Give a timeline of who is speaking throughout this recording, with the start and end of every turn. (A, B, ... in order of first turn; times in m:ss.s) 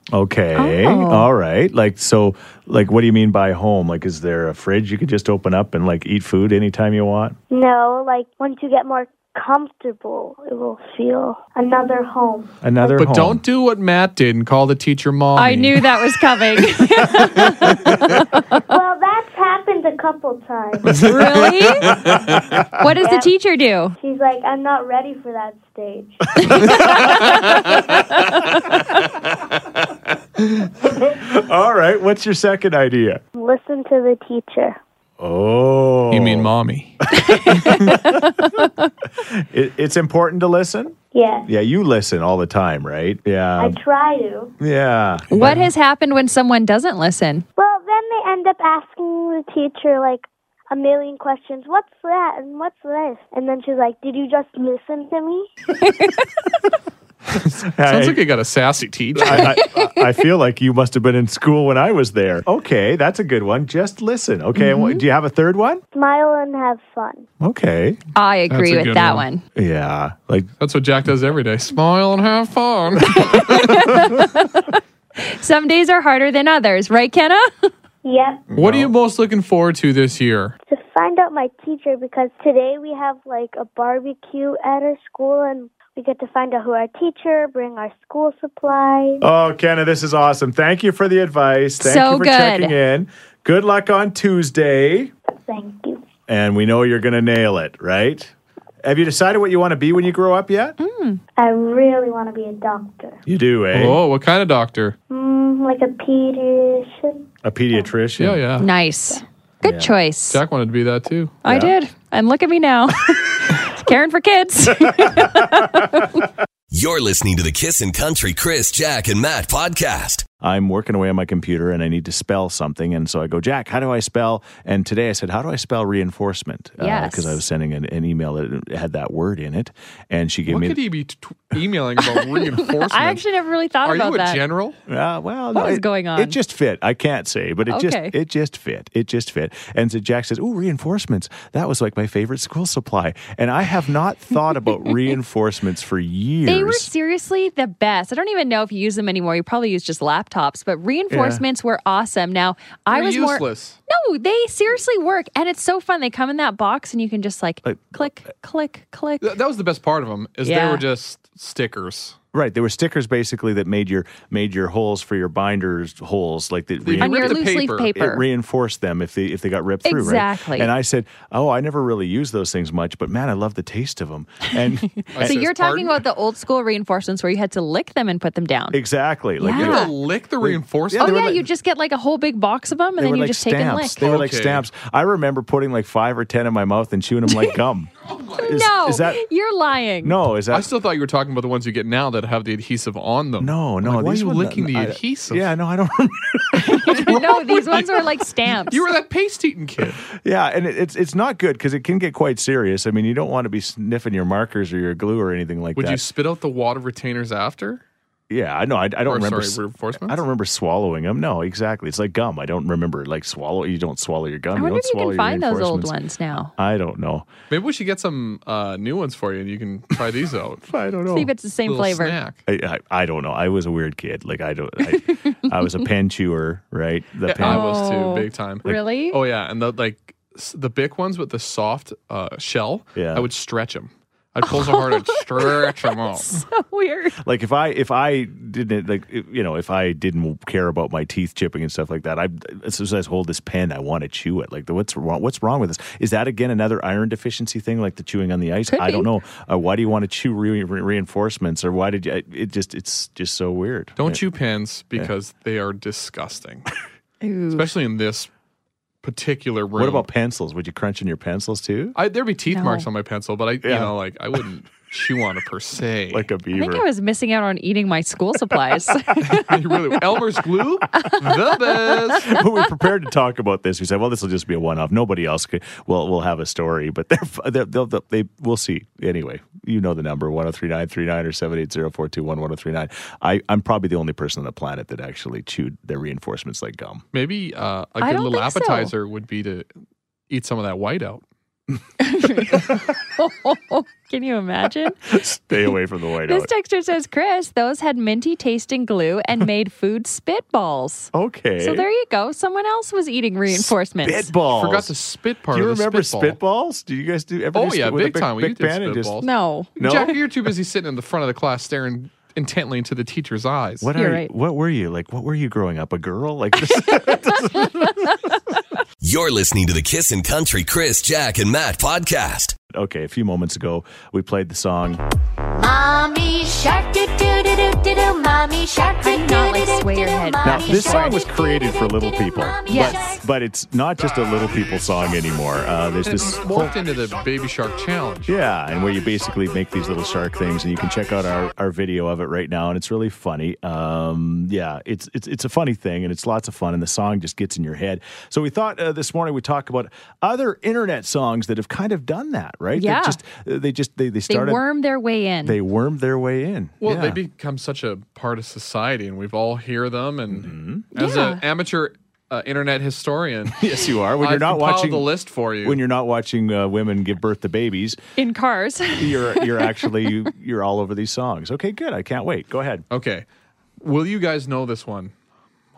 0:00.1-0:07.4 A
0:00.6-0:01.3 B
0:07.5-0:12.5 C
0:12.6-0:13.4 A
0:12.9-0:15.9 D
0:15.4-0:18.6 B
0:18.7-0:21.2 C
0:20.9-0:22.6 D
0:21.0-0:21.9 B
0:22.1-0:22.7 A
0:22.8-0:24.0 B
0:23.0-0:23.3 C
0:24.0-0:27.1 C
0:26.4-0:27.7 A
0:26.5-0:27.5 B
0:28.2-0:28.8 B
0:28.5-0:28.8 A
0:30.4-0:33.2 A
0:33.4-0:34.8 C
0:35.2-0:36.5 A
0:36.1-0:37.0 D
0:37.1-0:38.3 A
0:37.2-0:38.9 B
0:37.6-0:37.9 D
0:39.2-0:43.8 A
0:41.1-0:41.5 C
0:43.6-0:44.5 C
0:44.6-0:45.6 A
0:45.3-0:47.4 B
0:45.4-0:45.7 D
0:47.6-0:55.5 C
0:55.8-0:56.3 B
0:57.3-0:59.6 D
0:57.6-0:58.2 A
0:59.2-1:05.8 A
0:59.3-1:00.0 B
1:04.6-1:05.0 B
1:05.9-1:07.3 C
1:07.4-1:08.0 A
1:08.2-1:09.4 B
1:08.5-1:09.3 D
1:09.6-1:10.5 A
1:10.6-1:14.0 D
1:13.2-1:17.7 B
1:18.0-1:18.4 C
1:18.5-1:20.6 D
1:18.6-1:18.9 A
1:20.7-1:29.2 C
1:29.2-1:35.1 A
1:31.8-1:32.8 B
1:35.5-1:36.0 C
1:36.3-1:40.8 A
1:40.8-1:41.2 B
1:41.4-1:43.2 C
1:43.3-1:44.0 A
1:43.7-1:45.0 D
1:45.1-1:47.9 C
1:47.4-1:48.4 A
1:48.2-1:48.7 D
1:48.6-1:50.4 B
1:49.6-1:49.9 A
1:50.3-1:51.4 D
1:51.4-1:56.2 B
1:51.4-1:51.7 A
1:54.9-1:55.7 A
1:56.7-2:00.3 E
2:00.4-2:10.8 A
2:06.8-2:07.4 B
2:10.5-2:13.2 D
2:12.6-2:14.4 B
2:13.8-2:14.8 D
2:14.9-2:26.9 A
2:15.5-2:16.4 B
2:17.7-2:18.2 B
2:26.5-2:39.4 B
2:31.1-2:31.4 A
2:32.9-2:33.8 D
2:37.6-2:38.1 A
2:39.2-2:42.2 D
2:40.4-2:40.8 B
2:42.3-2:55.4 A
2:46.8-2:47.9 D
2:47.0-2:48.2 B
2:49.8-2:50.7 B
2:55.0-2:58.8 B
2:55.1-2:56.0 D
2:58.7-3:01.5 A
2:59.4-2:59.9 B
2:59.5-3:01.3 D
3:01.0-3:04.0 B
3:03.0-3:09.2 A
3:04.0-3:04.6 D
3:08.3-3:10.2 B
3:10.0-3:10.7 A
3:10.5-3:15.5 D
3:13.4-3:17.2 A
3:16.6-3:18.8 B
3:17.0-3:18.1 D
3:18.7-3:20.0 D
3:20.1-3:26.0 A
3:25.8-3:27.8 D
3:28.3-3:37.3 A
3:29.1-3:30.2 D
3:34.6-3:36.5 B
3:37.5-3:40.6 D
3:40.7-3:41.3 A
3:41.1-3:42.2 B
3:41.7-3:42.4 D
3:42.5-3:47.7 A
3:44.9-3:45.4 B
3:47.3-3:56.4 D
3:47.4-3:49.2 B
3:53.0-3:53.3 A
3:54.4-3:57.2 B
3:57.2-4:14.2 A
4:08.7-4:09.1 B
4:14.0-4:16.7 D
4:17.2-4:17.7 B
4:17.5-4:18.3 D
4:19.0-4:20.1 D
4:19.8-4:22.0 A
4:22.0-4:26.3 D
4:22.5-4:22.9 B
4:23.6-4:24.0 A
4:26.1-4:26.9 A
4:26.5-4:29.6 B
4:29.2-4:32.4 D
4:32.2-4:47.0 A
4:47.1-4:49.7 D
4:48.0-4:48.9 B
4:50.3-4:51.2 D
4:52.0-4:55.0 B
4:55.0-4:56.5 A
4:56.3-5:04.3 B
5:01.1-5:01.9 A
5:03.5-5:04.9 A
5:04.5-5:06.4 D
5:05.5-5:09.2 A
5:07.5-5:09.3 D
5:09.2-5:09.7 B
5:09.8-5:10.5 A
5:09.8-5:13.9 D
5:13.8-5:18.2 A
5:14.0-5:14.3 B
5:17.6-5:17.9 B
5:19.0-5:22.6 E
5:22.7-5:25.0 A
5:25.6-5:33.2 F
5:29.0-5:31.2 B
5:30.4-5:36.8 A
5:32.7-5:33.1 B
5:36.0-5:38.3 D
5:38.3-5:54.6 A
5:52.8-5:53.2 B
5:54.3-5:55.6 B
5:55.4-5:57.2 A
5:56.8-6:03.6 D
6:00.3-6:00.8 A
6:01.0-6:01.4 B
6:03.6-6:05.1 A
6:04.2-6:05.8 D
6:05.6-6:08.0 A
6:08.2-6:10.1 B
6:09.0-6:12.8 A
6:12.9-6:13.2 D
6:13.8-6:15.1 D